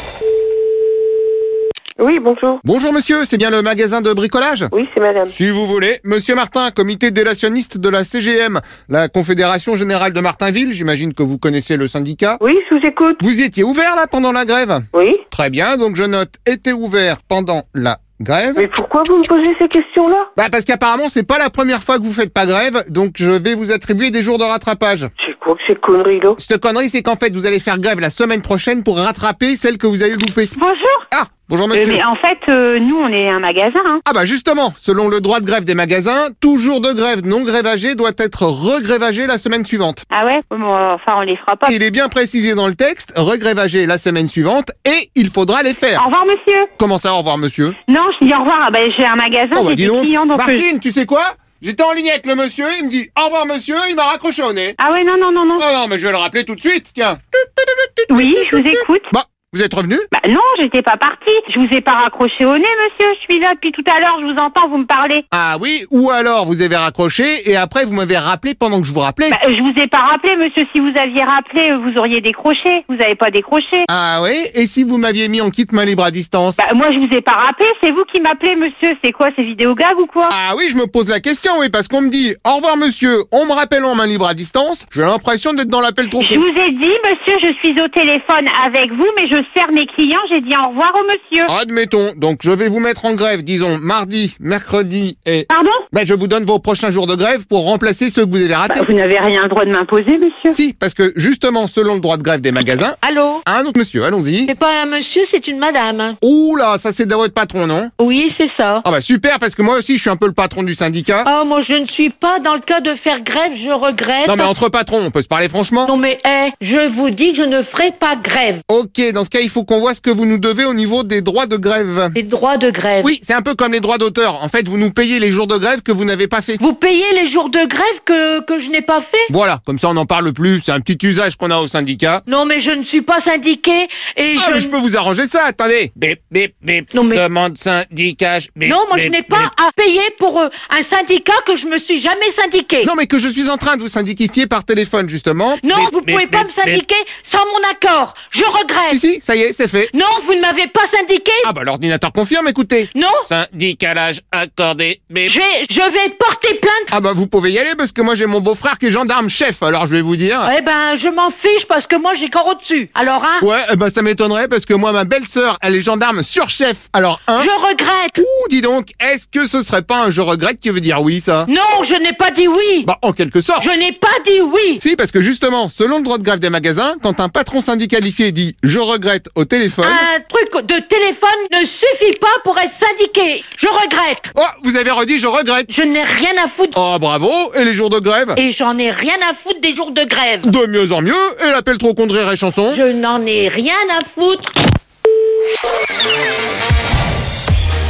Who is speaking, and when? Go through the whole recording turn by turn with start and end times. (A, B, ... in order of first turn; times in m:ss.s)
0:02.0-0:02.6 A
0:02.6-0:04.7 B
0:04.7-0:05.3 A
0:05.3-0:12.4 B
0:12.4-0:13.2 A
0:13.2-0:18.7 B
0:14.9-0:15.2 A
0:18.6-0:20.3 A
0:20.4-0:25.1 B
0:25.2-0:26.4 A
0:26.4-0:30.5 B
0:30.6-0:31.0 C
0:31.1-0:32.0 B
0:31.7-0:34.0 C
0:34.0-0:40.0 B
0:40.1-0:41.7 C
0:41.6-0:46.0 B
0:46.0-0:46.7 C
0:46.8-0:47.7 B
0:47.9-0:50.6 C
0:49.5-0:54.8 B
0:54.8-0:55.6 C
0:55.6-1:00.1 B
0:58.1-0:59.1 C
1:00.1-1:05.2 C
1:05.3-1:09.4 B
1:09.3-1:13.9 C
1:13.9-1:16.6 B
1:16.6-1:20.3 C
1:20.3-1:26.4 B
1:26.2-1:31.5 C
1:31.5-1:38.8 B
1:35.5-1:35.8 C
1:38.7-1:40.6 C
1:40.5-1:44.5 B
1:43.0-1:43.4 D
1:44.4-1:46.2 D
1:46.2-1:47.9 B
1:48.0-1:48.8 D
1:48.8-1:51.3 B
1:51.2-1:54.5 D
1:54.2-1:55.9 B
1:55.8-1:58.6 D
1:58.7-2:02.1 B
2:02.1-2:03.1 D
2:03.0-2:06.6 B
2:06.6-2:09.3 D
2:09.3-2:12.2 B
2:12.3-2:14.7 D
2:14.3-2:19.5 B
2:16.9-2:17.2 D
2:18.6-2:22.9 D
2:22.8-2:26.8 B
2:25.6-2:29.0 D
2:28.9-2:29.9 B
2:29.9-2:31.5 D
2:31.4-2:35.3 B
2:32.9-2:33.3 D
2:35.3-2:36.9 D
2:36.9-2:40.5 B
2:40.4-2:43.4 D
2:43.4-2:47.5 B
2:47.3-2:48.2 D
2:48.2-2:51.5 B
2:51.4-2:52.9 D
2:52.8-2:53.7 B
2:53.6-2:54.8 D
2:54.8-3:00.1 B
2:59.8-3:04.3 D
3:04.3-3:05.7 B
3:05.7-3:06.8 D
3:06.7-3:08.4 B
3:08.4-3:10.5 D
3:10.4-3:12.8 B
3:12.7-3:14.5 D